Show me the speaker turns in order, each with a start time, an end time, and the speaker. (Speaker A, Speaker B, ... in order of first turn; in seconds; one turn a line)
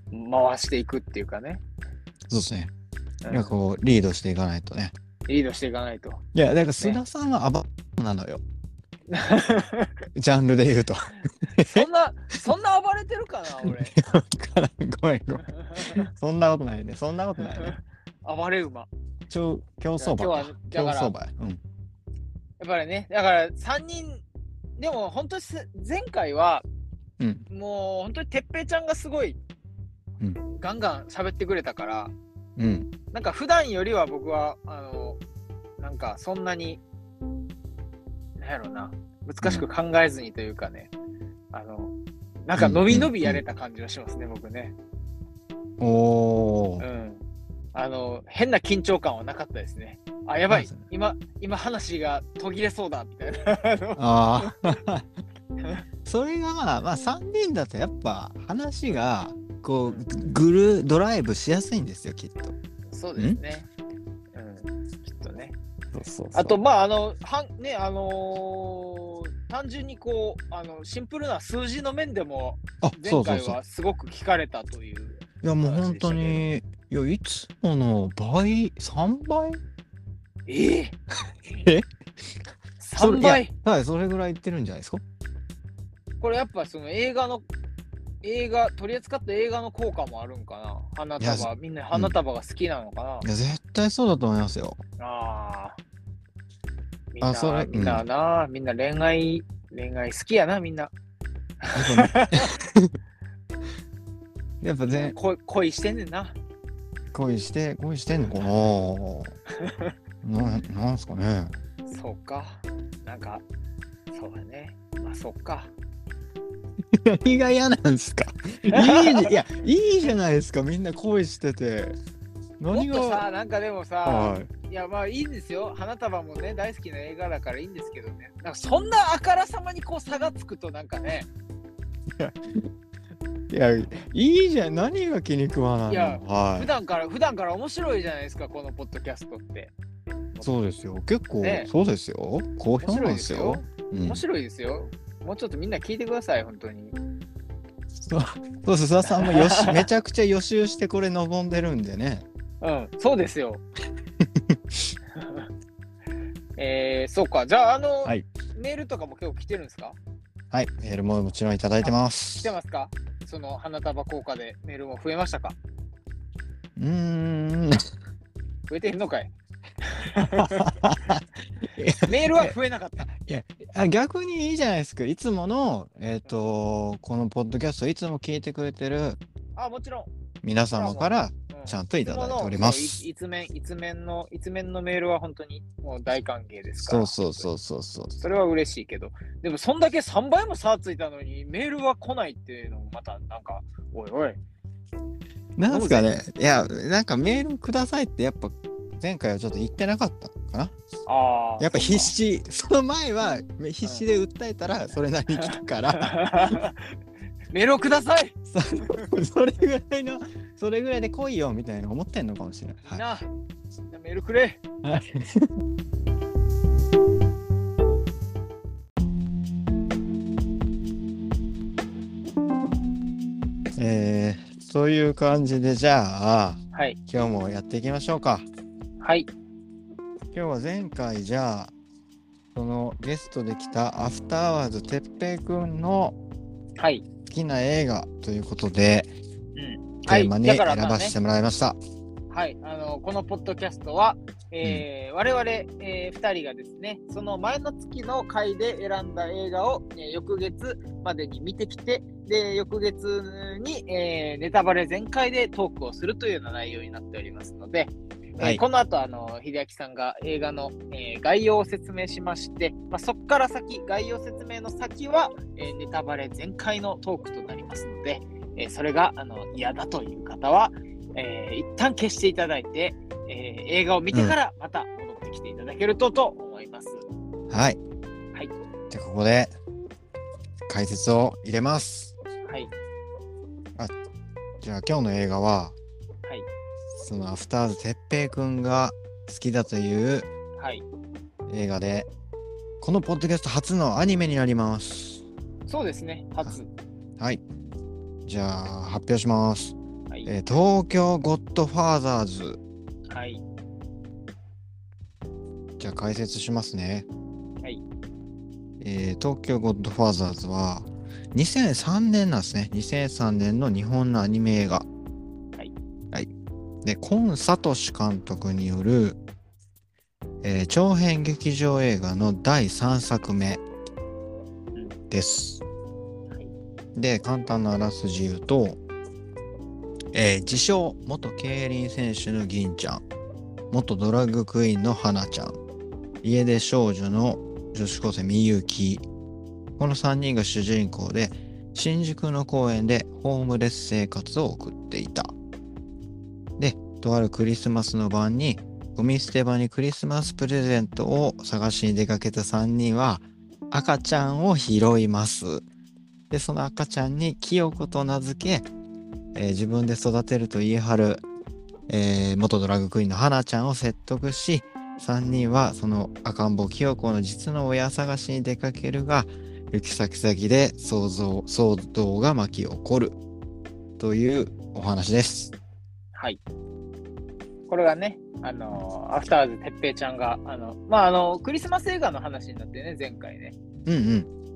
Speaker A: 0.1-1.6
Speaker B: 2.3-2.7
Speaker A: 3.2-3.5
Speaker B: 3.3-4.9
Speaker A: 5.3-6.2
Speaker B: 6.3-8.4
Speaker A: 9.1-9.9
Speaker B: 10.1-11.9
Speaker A: 11.6-13.9
Speaker B: 13.6-17.8
Speaker A: 15.4-16.0
Speaker A: 17.4-18.9
Speaker B: 19.3-21.6
Speaker A: 20.0-21.1
Speaker A: 22.6-24.2
Speaker A: 24.8-26.6
Speaker B: 27.2-27.4
Speaker A: 27.5-29.4
Speaker A: 30.5-32.1
Speaker B: 32.6-32.9
Speaker A: 33.1-35.2
Speaker A: 35.8-36.8
Speaker A: 38.4-40.9
Speaker A: 41.5-44.7
Speaker B: 42.5-43.4
Speaker B: 45.8-46.8
Speaker A: 46.8-54.5
Speaker B: 50.5-50.7
Speaker B: 54.0-55.1
Speaker B: 56.0-62.5
Speaker A: 59.8-60.1
Speaker A: 62.9-63.7
Speaker A: 64.3-65.5
Speaker B: 65.9-66.6
Speaker A: 66.3-76.4
Speaker B: 72.8-73.6
Speaker B: 75.4-79.6
Speaker A: 80.5-81.0
Speaker B: 81.5-81.8
Speaker A: 82.8-83.5
Speaker B: 83.0-85.0
Speaker A: 86.2-87.4
Speaker A: 88.2-93.3
Speaker B: 91.2-92.2
Speaker B: 93.2-94.8
Speaker A: 95.0-95.8
Speaker A: 97.1-100.9
Speaker B: 97.2-98.0
Speaker A: 101.6-102.5
Speaker B: 101.7-102.9
Speaker B: 104.6-105.1
Speaker A: 104.9-106.3
Speaker B: 107.1-109.3
Speaker A: 109.6-109.9
Speaker B: 110.2-111.5
Speaker A: 111.9-113.4
Speaker A: 114.1-115.7
Speaker B: 116.9-121.9
Speaker A: 118.7-119.3
Speaker B: 122.6-123.2
Speaker A: 122.7-131.3
Speaker B: 124.0-124.5
Speaker B: 132.2-132.6
Speaker B: 133.5-136.7
Speaker A: 135.9-139.7
Speaker B: 140.4-144.2
Speaker A: 141.4-141.7
Speaker A: 142.8-147.0
Speaker B: 147.9-152.2
Speaker A: 149.1-149.8
Speaker A: 152.6-153.6
Speaker B: 154.2-154.9
Speaker A: 155.1-155.5
Speaker A: 156.6-160.0
Speaker B: 160.5-162.5
Speaker A: 162.4-165.6
Speaker B: 166.8-167.8
Speaker A: 168.7-169.3
Speaker A: 169.8-170.7
Speaker B: 170.3-179.2
Speaker A: 172.0-173.1
Speaker A: 179.6-180.1
Speaker B: 180.4-183.0
Speaker A: 180.7-187.2
Speaker B: 186.8-188.2
Speaker A: 188.2-194.4
Speaker B: 195.6-200.7
Speaker A: 195.7-196.1
Speaker A: 201.1-202.1
Speaker B: 201.6-206.6
Speaker A: 205.3-206.8
Speaker A: 207.5-208.3
Speaker B: 208.5-213.0
Speaker A: 212.9-213.3
Speaker A: 213.9-214.6
Speaker B: 214.8-215.5
Speaker B: 223.8-228.5
Speaker A: 229.0-229.3
Speaker B: 230.3-231.7
Speaker B: 232.5-236.2
Speaker A: 236.8-237.1
Speaker B: 237.2-239.1
Speaker A: 239.6-241.1
Speaker B: 240.1-241.8
Speaker A: 242.3-277.0
Speaker B: 277.5-277.8
Speaker B: 278.9-279.5
Speaker B: 280.7-282.2
Speaker A: 282.4-282.7
Speaker B: 284.6-285.8
Speaker B: 286.9-290.3
Speaker A: 290.6-290.8
Speaker B: 291.5-292.1
Speaker B: 292.8-295.2
Speaker A: 295.7-296.7
Speaker B: 298.2-302.6
Speaker A: 303.1-303.4
Speaker B: 305.8-307.1
Speaker B: 308.8-314.9
Speaker B: 316.8-319.2
Speaker B: 320.4-323.6
Speaker B: 325.1-325.6
Speaker B: 326.9-328.8
Speaker B: 330.1-333.0
Speaker B: 333.7-335.6
Speaker B: 336.2-339.0
Speaker B: 339.8-345.3
Speaker B: 346.6-355.6
Speaker B: 356.3-358.7
Speaker B: 359.3-361.2
Speaker B: 361.9-373.2
Speaker B: 374.0-375.5
Speaker A: 376.1-376.4
Speaker A: 377.7-383.6
Speaker B: 383.9-384.3